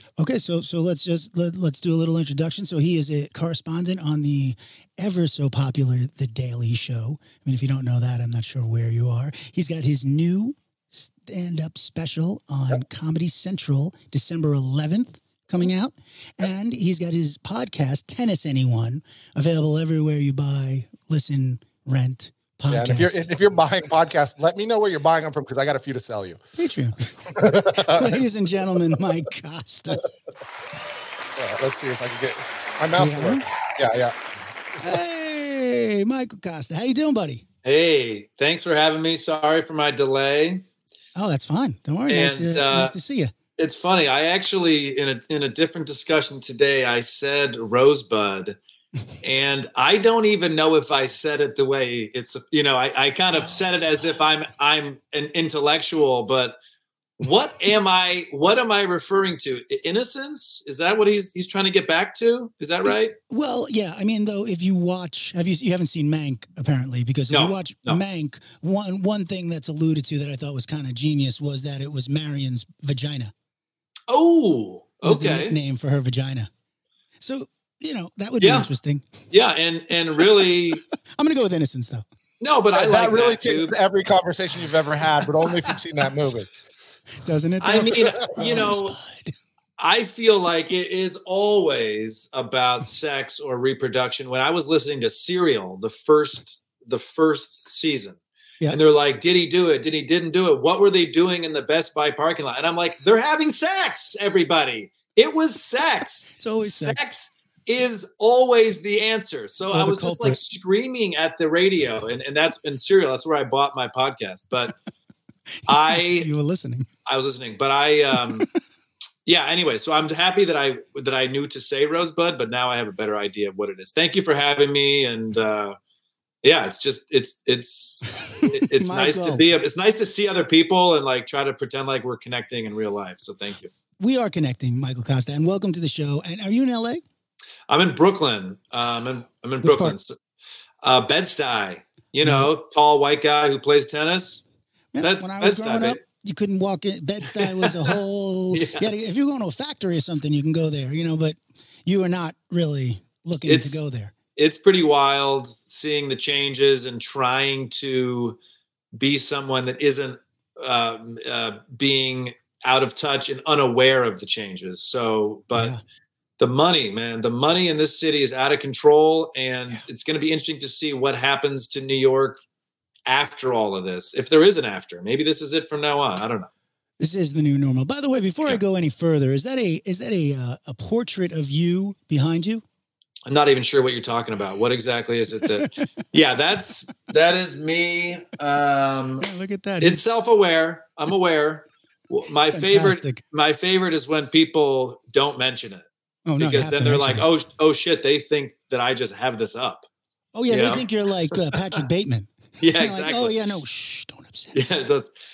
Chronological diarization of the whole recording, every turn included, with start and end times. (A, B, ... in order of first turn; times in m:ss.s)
0:00.2-0:23.3 A
0:22.7-0:26.4 B
0:26.6-0:30.1 A
0:27.3-0:28.2 B
0:31.4-0:34.2 B
0:33.0-0:33.5 A
0:34.8-0:37.4 A
0:37.6-0:40.6 C
0:41.2-0:43.3 A
0:42.1-0:43.0 C
0:43.6-0:48.6 C
0:49.2-0:56.6 C
0:57.2-1:03.1 C
1:02.9-1:13.3 A
1:07.3-1:08.0 C
1:14.1-1:15.6 C
1:15.0-1:16.5 A
1:17.2-1:19.1 A
1:18.4-1:18.7 C
1:19.3-1:20.8 C
1:21.2-1:22.1 A
1:22.4-1:23.7 C
1:22.7-1:26.5 B
1:27.2-1:29.3 A
1:27.6-1:29.0 C
1:29.8-1:38.2 C
1:38.7-1:54.8 C
1:46.4-1:47.1 A
1:49.7-1:50.4 A
1:55.7-1:56.3 C
1:55.7-1:56.9 A
1:57.1-1:58.5 C
1:59.3-2:05.8 C
2:06.4-2:13.7 C
2:08.3-2:09.4 A
2:14.0-2:17.0 A
2:17.7-2:20.2 C
2:19.6-2:20.0 A
2:20.8-2:24.4 C
2:22.2-2:22.5 A
2:24.9-2:34.1 A
2:25.0-2:26.0 C
2:27.3-2:28.0 C
2:28.5-2:28.9 C
2:33.5-2:33.8 C
2:34.4-2:38.4 C
2:39.0-2:45.8 C
2:45.6-2:45.8 A
2:46.4-2:52.4 C
2:53.1-2:56.5 C
2:57.0-3:02.6 A
3:03.3-3:09.3 C
3:09.2-3:10.0 A
3:09.8-3:15.9 C
3:12.5-3:13.2 A
3:16.3-3:17.3 A
3:16.4-3:19.9 C
3:20.4-3:24.6 A
3:20.5-3:21.8 C
3:22.6-3:23.6 C
3:24.6-3:25.1 C